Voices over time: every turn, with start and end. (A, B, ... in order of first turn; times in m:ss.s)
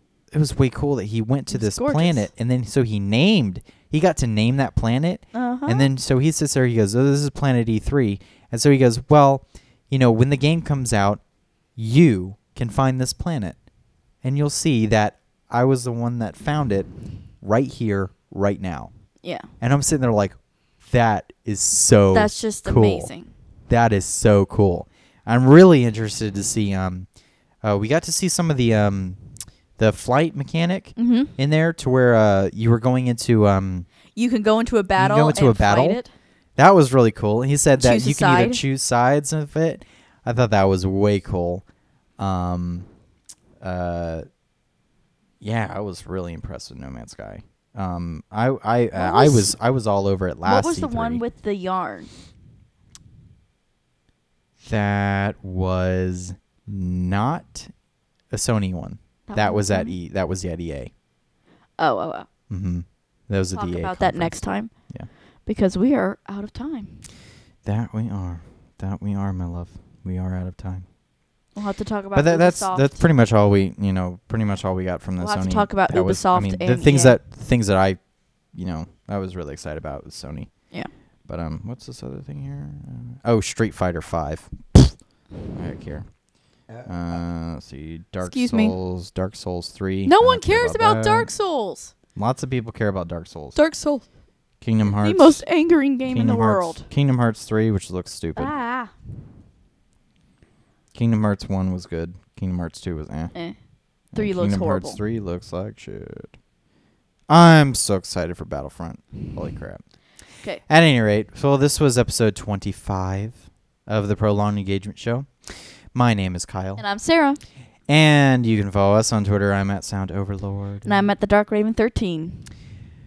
0:00.3-0:11.2 A
0:01.5-0:02.3 B
0:05.3-0:05.9 B
0:11.8-0:13.6 A
0:14.2-0:16.9 A
0:17.4-0:18.9 A
0:19.2-0:19.5 B
0:19.6-0:23.1 A
0:22.1-0:23.3 B
0:23.7-0:27.1 A
0:27.6-0:29.2 A
0:29.8-0:33.9 A
0:31.0-0:31.3 B
0:34.2-0:36.1 B
0:35.0-0:36.0 A
0:36.6-0:41.6 A
0:37.8-0:38.6 B
0:42.2-0:42.9 A
0:43.6-0:44.2 A
0:45.4-0:51.2 A
0:49.0-0:49.6 B
0:50.4-0:52.1 B
0:54.6-0:57.7 A
0:58.3-1:00.9 A
0:59.3-1:00.0 B
1:01.8-1:02.3 B
1:02.5-1:04.4 A
1:03.6-1:04.7 B
1:05.5-1:07.0 B
1:07.6-1:10.8 A
1:11.6-1:13.0 B
1:12.2-1:18.0 A
1:15.2-1:17.2 B
1:18.5-1:20.5 A
1:21.3-1:25.0 A
1:25.5-1:26.1 A
1:26.8-1:31.3 A
1:28.2-1:28.8 B
1:30.0-1:31.9 B
1:32.2-1:33.6 A
1:33.6-1:34.1 B
1:34.6-1:35.4 A
1:34.8-1:36.9 B
1:36.1-1:38.5 A
1:38.4-1:38.9 B
1:40.9-1:43.3 A
1:44.1-1:46.3 A
1:44.2-1:45.0 B
1:47.3-1:49.8 A
1:50.7-1:56.8 A
1:56.8-1:57.4 B
1:57.9-2:01.1 A
2:00.8-2:02.5 B